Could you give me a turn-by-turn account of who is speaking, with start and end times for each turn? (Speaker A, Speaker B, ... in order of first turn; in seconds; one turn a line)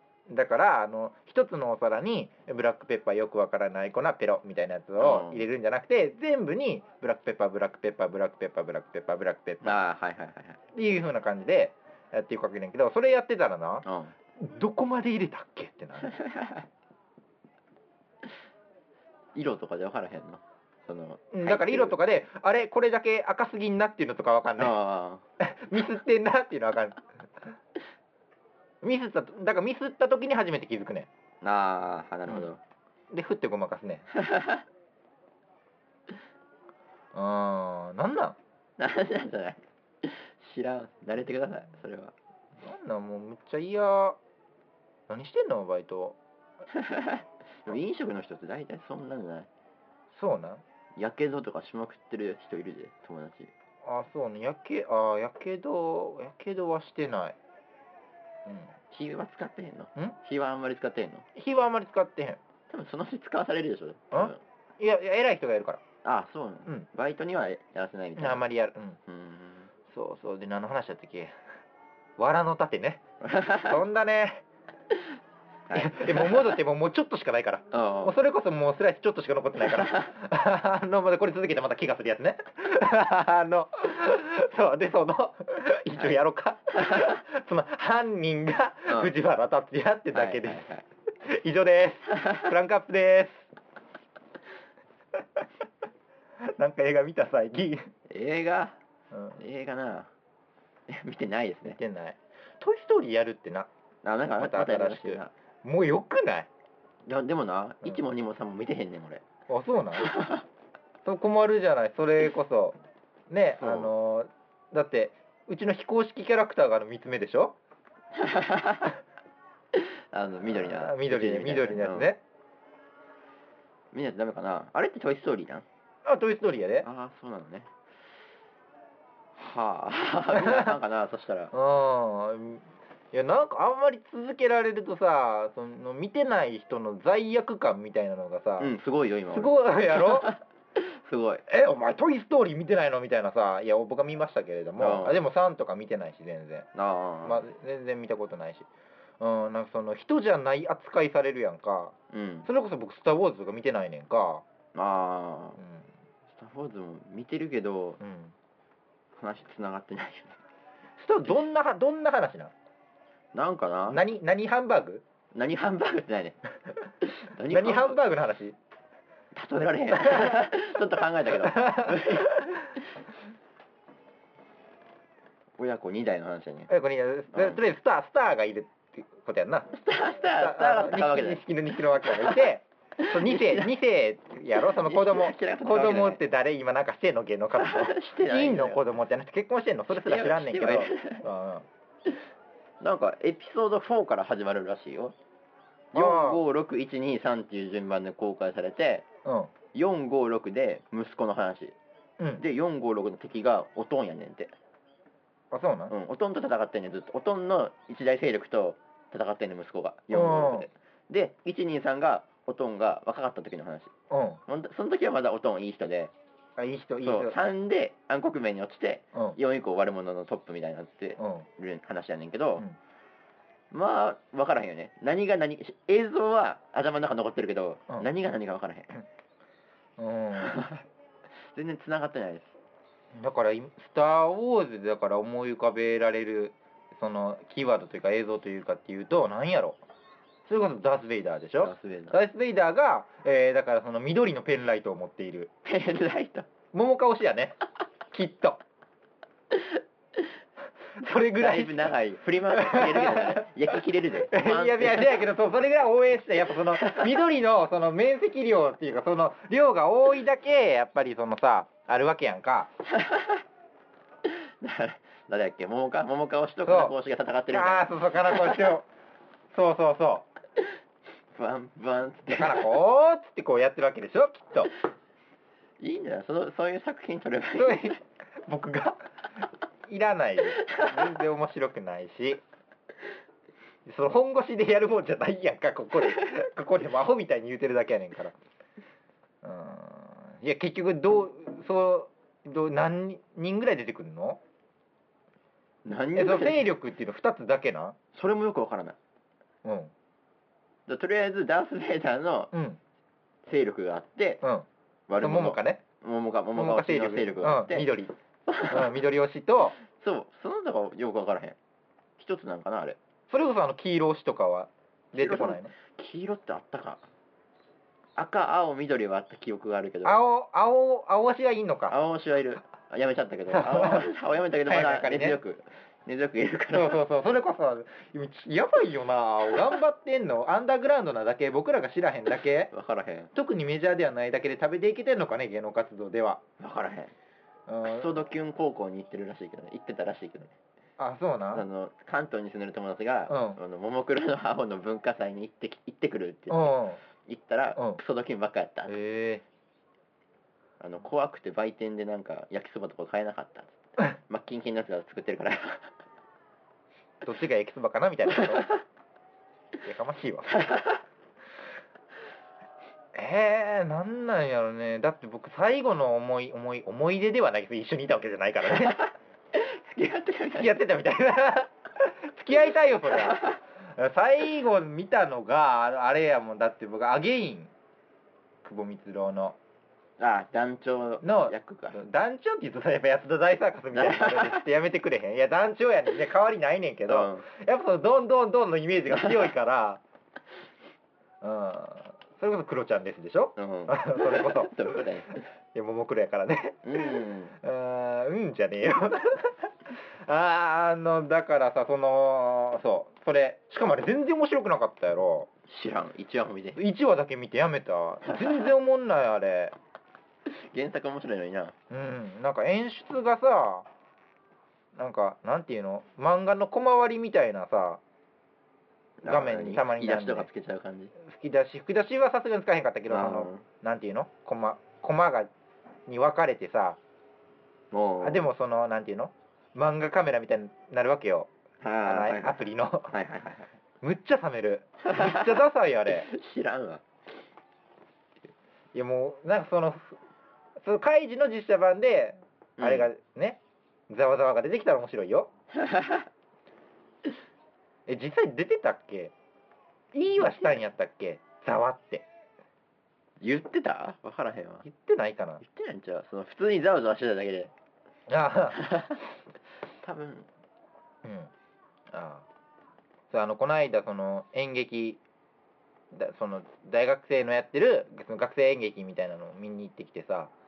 Speaker A: 0.3-9.8
Speaker B: 5.0-5.5
Speaker B: 9.6-10.6
Speaker A: 10.7-16.3
Speaker B: 13.9-14.1
Speaker B: 16.1-16.6
Speaker B: 19.4-22.0
Speaker A: 21.3-24.8
Speaker B: 24.6-25.2
Speaker A: 25.4-27.0
Speaker A: 28.8-31.1
Speaker B: 31.4-32.6
Speaker A: 33.1-34.1
Speaker B: 34.1-34.6
Speaker A: 37.1-38.4
Speaker B: 38.8-42.1
Speaker A: 42.6-44.2
Speaker A: 45.1-46.2
Speaker B: 46.7-49.5
Speaker A: 50.1-50.6
Speaker B: 51.0-53.5
Speaker A: 53.9-57.4
Speaker A: 58.5-58.7
Speaker B: 58.9-61.3
Speaker A: 61.4-62.4
Speaker B: 62.7-64.4
Speaker A: 64.1-65.8
Speaker B: 66.0-68.4
Speaker A: 68.2-69.0
Speaker B: 69.1-69.7
Speaker A: 69.9-71.3
Speaker A: 72.2-74.4
Speaker B: 73.2-73.8
Speaker B: 75.7-76.6
Speaker A: 75.7-90.6
Speaker B: 77.7-78.2
Speaker B: 88.9-89.1
Speaker B: 90.1-90.8
Speaker A: 91.2-93.5
Speaker A: 96.4-97.9
Speaker B: 98.1-98.8
Speaker A: 99.1-99.4
Speaker B: 99.4-100.1
Speaker B: 100.9-101.8
Speaker A: 101.7-103.7
Speaker B: 104.0-105.3
Speaker A: 104.4-106.5
Speaker B: 107.0-109.2
Speaker A: 109.5-110.2
Speaker B: 110.0-110.4
Speaker A: 111.0-112.8
Speaker A: 113.3-117.6
Speaker B: 113.6-113.9
Speaker B: 118.2-119.0
Speaker B: 119.7-122.1
Speaker A: 120.5-122.2
Speaker B: 123.9-125.7
Speaker A: 126.0-126.9
Speaker B: 126.8-127.7
Speaker B: 129.4-131.5
Speaker A: 130.3-130.8
Speaker A: 131.5-138.7
Speaker B: 138.6-141.4
Speaker A: 139.3-140.3
Speaker A: 141.5-146.7
Speaker B: 144.8-145.2
Speaker B: 146.7-147.4
Speaker A: 147.2-148.7
Speaker A: 149.2-151.9
Speaker B: 152.1-152.5
Speaker A: 152.5-154.4
Speaker B: 154.8-155.6
Speaker A: 155.6-155.9
Speaker B: 156.3-158.0
Speaker A: 158.0-158.3
Speaker B: 159.2-160.4
Speaker A: 161.0-162.5
Speaker B: 163.3-164.0
Speaker A: 163.9-165.0
Speaker B: 165.3-166.4
Speaker B: 167.2-168.0
Speaker A: 167.5-168.6
Speaker B: 169.3-172.4
Speaker A: 171.5-172.7
Speaker B: 175.6-176.7
Speaker A: 176.7-191.7
Speaker B: 179.7-181.4
Speaker B: 182.0-183.7
Speaker B: 184.6-186.2
Speaker B: 187.6-188.8
Speaker B: 189.9-191.2
Speaker B: 192.8-195.2
Speaker B: 195.9-199.1
Speaker A: 195.9-196.4
Speaker A: 199.2-199.5
Speaker B: 199.7-201.8
Speaker B: 202.4-204.5
Speaker A: 205.5-205.9
Speaker B: 205.9-213.9
Speaker A: 210.1-210.7
Speaker A: 214.1-214.4
Speaker B: 214.5-216.1
Speaker A: 216.6-217.4
Speaker B: 217.0-222.6
Speaker A: 221.2-221.5
Speaker B: 223.7-228.9
Speaker A: 230.0-230.7
Speaker B: 230.4-230.8
Speaker B: 231.4-232.5
Speaker A: 233.1-239.8
Speaker A: 240.5-245.5
Speaker B: 241.6-242.2
Speaker B: 245.7-246.5
Speaker A: 246.7-247.6
Speaker A: 248.1-248.6
Speaker B: 249.5-250.2
Speaker A: 251.0-251.9
Speaker B: 251.4-255.2
Speaker A: 252.5-253.5
Speaker A: 254.2-262.7
Speaker B: 256.8-257.1
Speaker B: 262.9-263.4
Speaker B: 264.2-268.7
Speaker A: 266.7-266.9
Speaker A: 267.5-268.9
Speaker A: 269.5-270.3
Speaker B: 271.3-272.7
Speaker A: 272.3-274.7
Speaker B: 275.8-277.9
Speaker A: 277.6-279.1
Speaker A: 279.9-282.4
Speaker B: 280.8-281.0
Speaker A: 283.9-288.4
Speaker A: 289.4-294.4
Speaker B: 295.9-296.7
Speaker A: 296.1-298.0
Speaker B: 298.1-299.0
Speaker A: 299.6-299.9
Speaker B: 300.9-302.5
Speaker A: 302.5-302.8
Speaker B: 303.5-304.4
Speaker B: 305.1-307.9
Speaker A: 305.2-305.8
Speaker A: 306.6-308.1
Speaker B: 308.5-309.0
Speaker A: 308.7-309.8
Speaker B: 309.8-311.6
Speaker B: 312.2-313.0
Speaker A: 313.3-315.7
Speaker B: 315.1-317.0
Speaker B: 318.2-320.2
Speaker A: 320.1-322.0
Speaker B: 321.9-327.0
Speaker A: 323.5-324.1
Speaker A: 324.6-325.4
Speaker A: 326.7-332.7
Speaker B: 332.7-333.3
Speaker A: 333.3-336.4
Speaker B: 336.6-337.1
Speaker A: 337.7-338.2
Speaker B: 337.8-340.5
Speaker A: 341.0-341.6
Speaker B: 341.5-348.9
Speaker A: 343.3-343.6
Speaker A: 346.5-347.0
Speaker A: 348.9-349.4
Speaker B: 350.8-355.9
Speaker A: 357.2-358.8
Speaker A: 359.8-360.7
Speaker A: 363.1-369.1
Speaker B: 369.5-370.7
Speaker A: 370.5-377.7
Speaker B: 373.2-373.5
Speaker A: 378.6-379.6
Speaker B: 380.2-382.0
Speaker A: 381.2-390.0
Speaker B: 383.9-384.6
Speaker B: 387.1-387.4
Speaker A: 391.4-395.0
Speaker B: 393.6-395.4
Speaker A: 395.7-405.5
Speaker B: 396.8-397.5
Speaker B: 405.7-406.8
Speaker A: 406.8-409.8
Speaker B: 410.5-411.8
Speaker A: 411.9-413.9
Speaker A: 415.0-418.0
Speaker B: 419.2-421.1
Speaker A: 419.3-420.5
Speaker A: 421.2-425.5
Speaker B: 423.1-423.6
Speaker A: 426.1-427.0
Speaker B: 427.9-428.5
Speaker A: 428.2-431.5
Speaker B: 431.8-433.7
Speaker A: 432.0-433.1
Speaker A: 434.0-436.3
Speaker B: 435.1-437.0
Speaker A: 438.9-440.2
Speaker A: 440.8-445.5
Speaker B: 442.8-443.1
Speaker B: 445.7-446.3
Speaker A: 448.1-449.3
Speaker A: 450.1-452.3
Speaker B: 453.4-454.9
Speaker A: 454.8-455.6
Speaker B: 455.6-457.7
Speaker A: 458.3-458.9
Speaker B: 458.8-459.2
Speaker B: 460.0-460.5
Speaker A: 461.2-461.5
Speaker A: 462.1-462.4
Speaker A: 463.3-465.2
Speaker A: 466.1-470.5